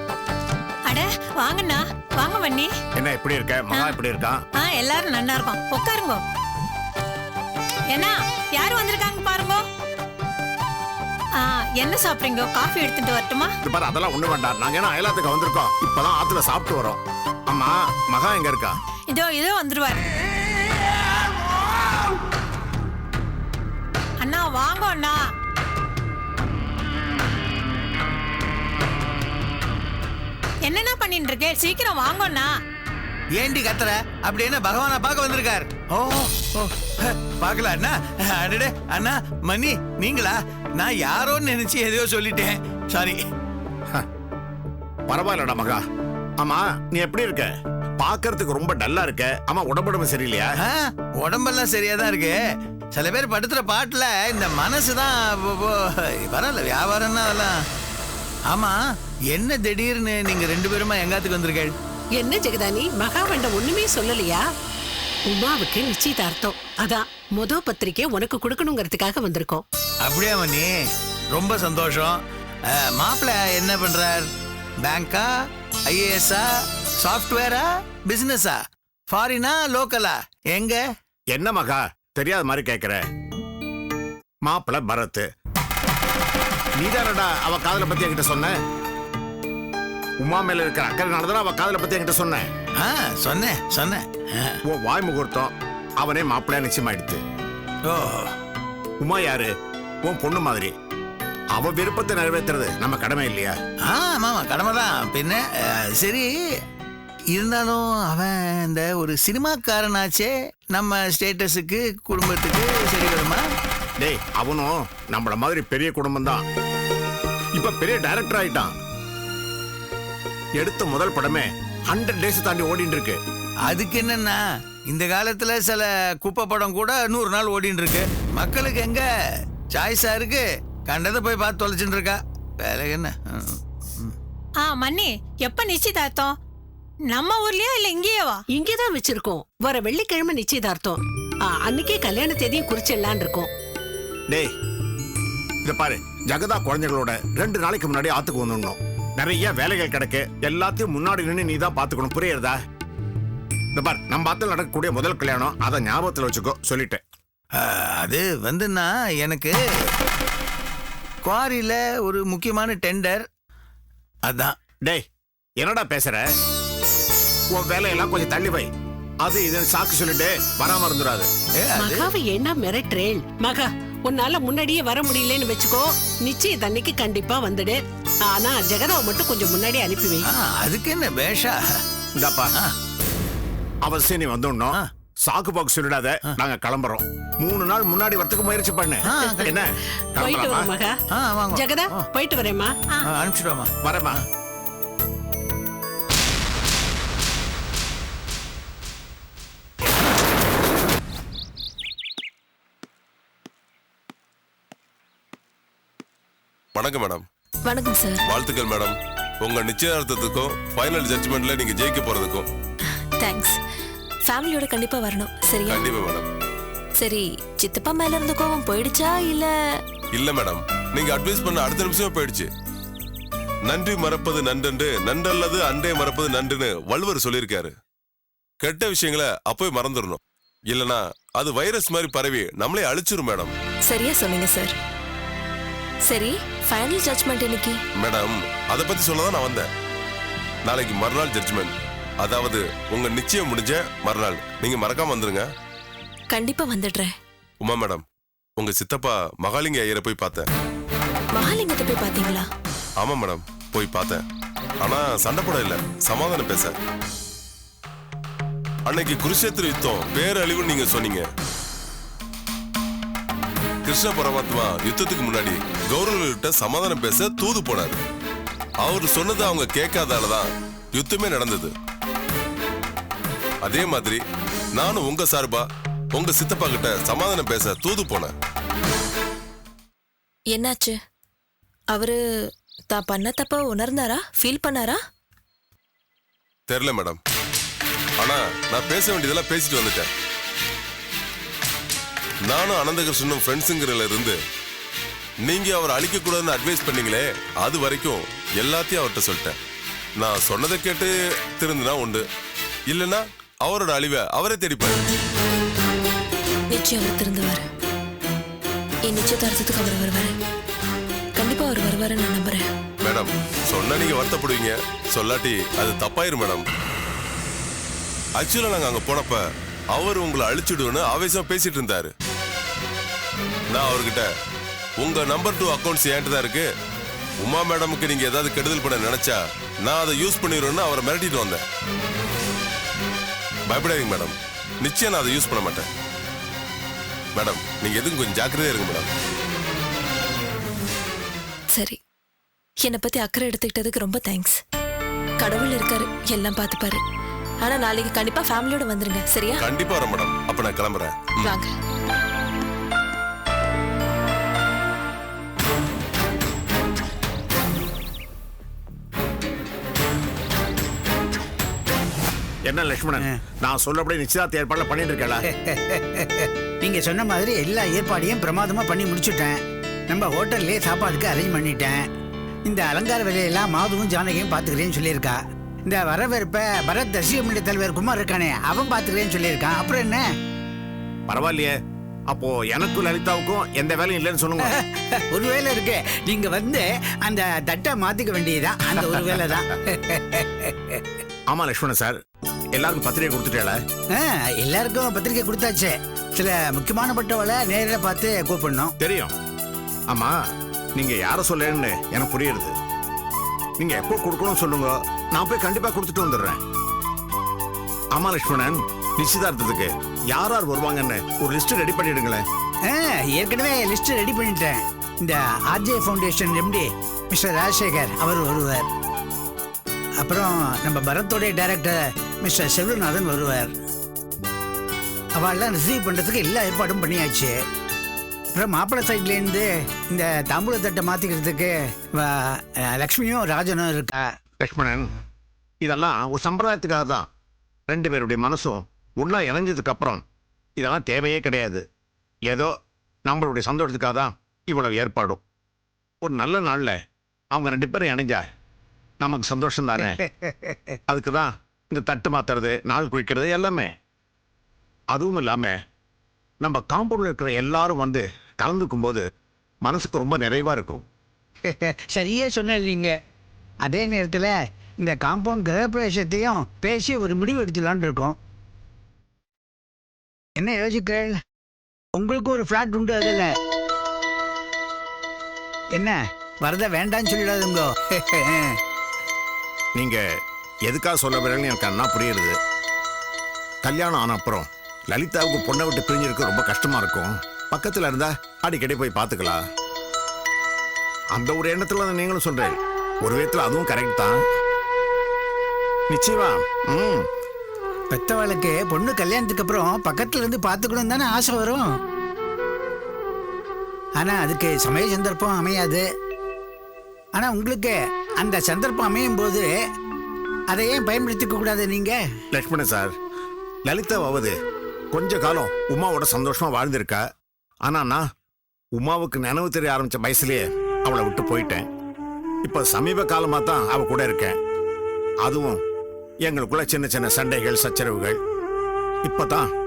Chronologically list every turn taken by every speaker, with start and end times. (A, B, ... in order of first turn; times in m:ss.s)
0:00.9-0:02.7 A
0:03.0-0:04.4 B
0:04.6-0:06.2 A
0:07.9-0:09.6 A
0:11.4-0:13.6 A
0:13.6-0:18.7 B
0:19.1-0:20.1 A
0:24.2-0:25.2 A
0:30.7-0:32.5 A
0:33.4-0:43.2 C
0:45.1-0:45.8 B
0:46.4-0:50.5 B
0:50.6-0:52.4 C
0:52.9-0:57.6 C
0:58.5-0:58.8 C
0:59.3-1:01.7 C
1:02.1-1:04.5 D
1:05.3-1:09.6 D
1:10.0-1:10.7 C
1:11.3-1:14.3 C
1:14.8-1:15.3 C
1:15.9-1:16.5 C
1:17.0-1:20.8 C
1:21.3-1:23.0 B
1:24.4-1:25.3 B
1:26.8-1:28.6 B
1:30.2-1:32.5 B
1:32.8-1:34.6 C
1:34.7-1:37.2 B
1:37.9-1:38.3 C
1:39.0-1:39.5 B
1:40.0-1:40.7 B
1:41.5-1:43.6 B
1:43.9-1:46.3 C
1:47.3-1:53.4 C
1:54.0-1:56.4 B
1:57.6-1:58.8 B
2:00.6-2:03.2 B
2:03.7-2:09.1 C
2:09.7-2:14.1 C
2:14.6-2:16.3 A
2:17.1-2:18.4 A
2:18.5-2:23.5 D
2:25.6-2:32.6 B
2:33.8-2:37.0 B
2:37.6-2:39.9 C
2:41.2-2:43.2 C
2:44.3-2:44.6 C
2:45.6-2:46.2 B
2:47.5-2:48.7 B
2:49.2-2:51.3 B
2:51.6-2:52.1 C
2:51.8-3:00.3 D
3:00.2-3:01.6 C
3:02.2-3:02.5 B
3:03.8-3:10.7 B
3:09.1-3:09.6 C
3:09.2-3:09.5 D
3:10.2-3:12.8 D
3:11.2-3:12.1 C
3:13.1-3:13.7 C
3:13.8-3:14.2 B
3:26.8-3:27.2 E
3:27.7-3:28.2 F
3:28.3-3:32.5 E
3:33.2-3:33.6 F
3:34.3-3:35.8 F
3:35.7-3:36.3 E
3:37.0-3:39.5 F
3:40.1-3:42.5 E
3:43.7-3:47.7 E
3:48.6-3:53.5 E
3:53.9-3:54.7 F
3:56.1-3:57.8 F
3:58.0-3:59.7 E
4:00.7-4:05.5 E
4:06.3-4:07.1 F
4:07.6-4:08.0 E
4:08.6-4:10.5 E
4:11.3-4:12.5 F
4:13.0-4:14.2 E
4:14.8-4:16.7 E
4:18.9-4:21.3 E
4:23.8-4:28.0 E
4:28.8-4:31.7 E
4:33.6-4:34.2 E
4:34.8-4:38.3 E
4:40.5-4:41.0 F
4:41.9-4:42.2 F
4:42.9-4:45.0 F
4:46.7-4:47.2 E
4:48.2-4:50.1 E
4:52.5-4:54.4 E
4:55.5-4:59.6 E
5:00.2-5:02.2 E
5:02.9-5:05.0 E
5:06.7-5:07.6 F
5:09.1-5:10.4 F
5:11.4-5:12.7 F
5:13.0-5:16.7 E
5:18.4-5:19.4 E
5:19.9-5:22.1 E
5:23.7-5:24.3 E
5:25.0-5:26.7 E
5:27.4-5:31.6 E
5:33.7-5:35.9 E
5:37.4-5:39.1 E
5:41.7-5:42.0 F
5:42.8-5:44.6 F
5:45.4-5:47.0 F
5:47.6-5:49.6 F
5:49.6-5:51.5 E
5:51.4-5:51.7 F
6:02.7-6:05.4 B
6:05.5-6:09.6 G
6:10.1-6:12.0 G
6:12.7-6:20.2 G
6:21.3-6:21.7 B
6:22.3-6:24.7 B
6:24.6-6:31.0 G
6:29.0-6:29.3 B
6:31.5-6:32.2 B
6:32.7-6:33.8 B
6:34.2-6:38.9 G
6:39.0-6:39.4 B
6:40.1-6:40.4 B
6:41.0-6:42.7 B
6:43.8-6:46.6 B
6:48.1-6:52.4 B
6:52.9-6:58.9 G
7:00.2-7:03.7 G
7:05.4-7:07.5 G
7:08.5-7:14.3 G
7:14.6-7:15.1 B
7:15.8-7:17.3 B
7:17.9-7:20.2 B
7:20.8-7:21.8 B
7:23.3-7:25.4 B
7:26.2-7:27.0 B
7:27.5-7:28.4 B
7:29.2-7:30.2 B
7:30.0-7:30.8 G
7:31.1-7:33.9 B
7:35.1-7:35.8 B
7:36.6-7:39.2 B
7:39.8-7:41.0 B
7:41.7-7:43.2 G
7:43.8-7:48.4 G
7:50.6-7:51.4 G
7:52.2-7:53.5 G
7:56.0-7:58.8 G
8:00.9-8:02.6 B
8:03.8-8:09.6 B
8:11.3-8:14.4 B
8:16.1-8:17.2 B
8:18.1-8:21.9 G
8:24.2-8:26.0 G
8:27.4-8:29.7 G
8:30.7-8:32.2 G
8:32.5-8:33.1 B
8:33.9-8:34.5 B
8:35.1-8:37.2 B
8:37.9-8:38.2 B
8:39.0-8:41.8 B
8:42.6-8:44.6 B
8:45.4-8:45.8 B
8:46.5-8:48.4 B
8:49.2-8:49.7 B